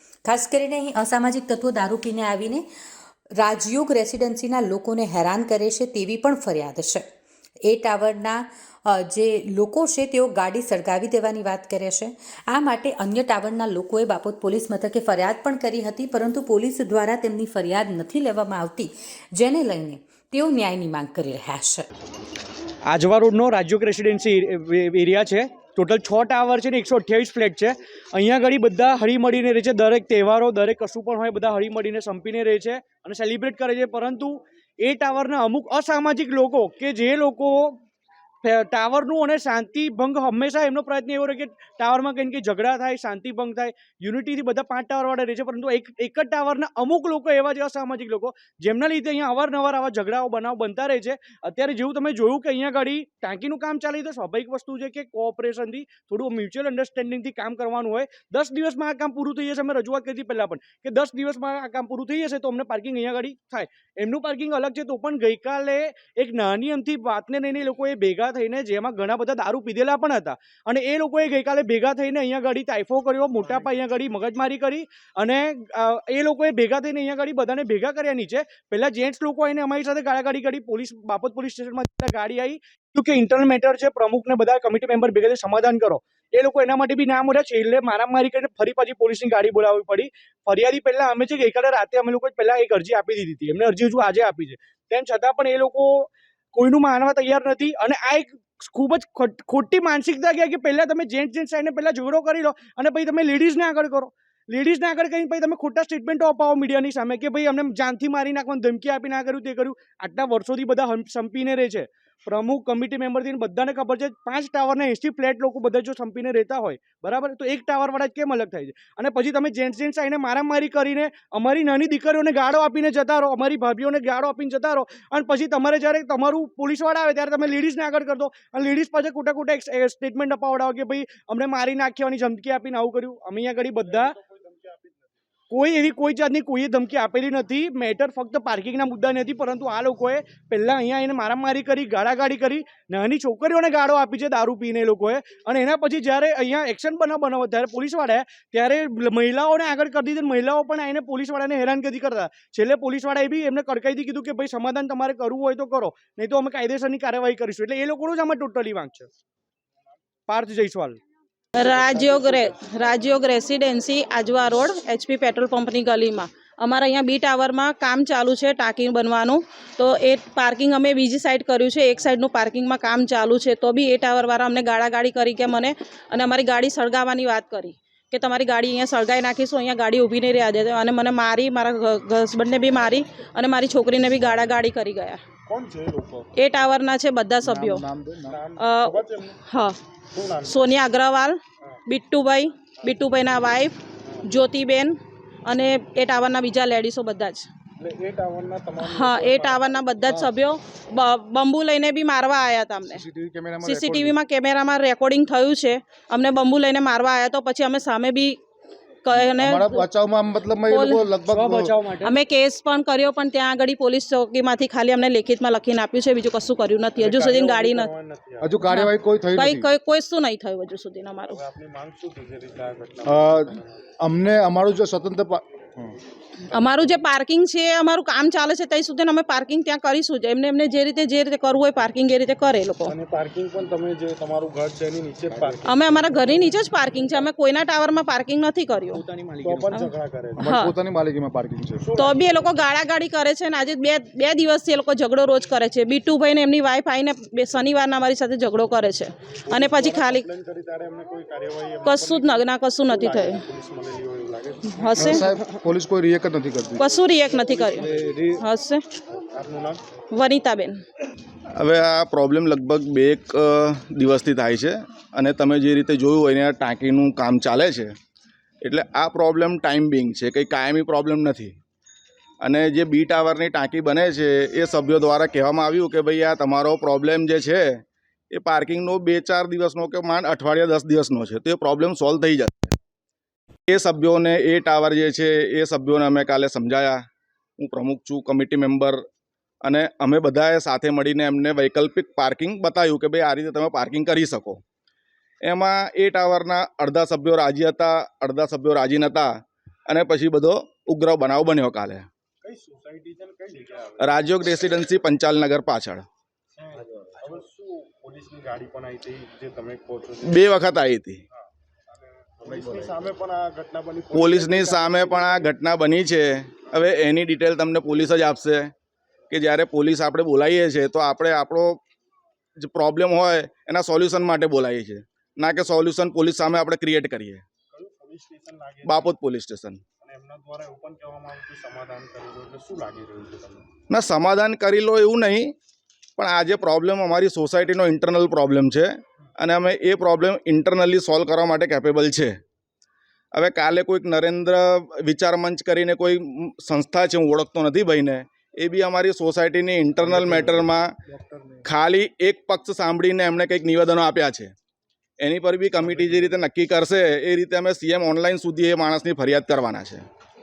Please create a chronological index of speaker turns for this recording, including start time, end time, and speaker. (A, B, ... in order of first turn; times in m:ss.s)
0:00.2-0:02.6 A
0:03.4-0:07.0 A
0:07.6-0:21.8 A
0:22.8-0:37.8 B
0:38.4-2:14.2 B
2:13.8-2:15.1 C
2:15.5-2:39.1 B
2:40.3-2:41.0 B
2:41.5-3:05.2 D
3:05.5-3:06.3 C
3:06.4-3:07.8 D
3:07.4-3:08.4 E
3:08.2-3:09.4 C
3:08.6-3:09.8 D
3:10.1-3:10.6 C
3:10.4-3:17.5 D
3:17.8-3:19.9 C
3:18.8-3:23.0 D
3:22.9-3:24.2 E
3:23.6-3:28.4 D
3:29.0-3:29.9 D
3:29.2-3:31.7 E
3:30.7-3:31.1 D
3:31.3-3:32.1 B
3:32.0-3:37.9 D
3:37.0-3:38.6 C
3:38.4-3:39.7 E
3:38.6-3:41.4 D
3:41.3-3:43.8 C
3:43.0-3:45.9 E
3:46.5-3:52.9 D
3:52.8-3:56.7 C
3:55.3-3:55.6 B
3:55.6-3:59.0 D
3:58.9-3:59.7 B
3:59.4-4:00.6 C
3:59.7-4:00.8 D
4:00.4-4:01.9 E
4:01.8-4:02.6 C
4:01.9-4:10.3 D
4:09.5-4:15.4 C
4:11.8-4:13.4 D
4:14.7-4:15.4 D
4:15.0-4:16.8 E
4:16.8-4:18.8 D
4:17.3-4:18.4 C
4:19.3-4:19.8 C
4:20.1-4:20.8 D
4:21.6-4:27.9 F
4:28.6-4:31.5 F
4:32.4-4:42.8 F
4:43.7-4:47.0 F
4:47.6-4:49.0 F
4:49.6-4:54.6 F
4:55.4-4:59.3 F
4:59.9-5:02.1 F
5:02.4-5:04.2 C
5:04.0-5:06.0 F
5:06.6-5:10.5 C
5:06.8-5:07.1 E
5:10.2-5:11.2 F
5:12.4-5:15.5 C
5:12.5-5:12.8 E
5:14.1-5:18.7 F
5:19.3-5:21.8 F
5:22.6-5:27.4 F
5:27.7-5:29.1 C
5:28.8-5:29.8 F
5:30.0-5:33.6 C
5:33.9-5:35.5 F
5:36.2-5:42.3 F
5:43.3-5:50.9 F
5:50.1-5:50.7 C
5:51.3-5:51.6 C
5:51.6-5:54.5 F
5:55.2-6:00.0 F
5:55.8-5:56.4 C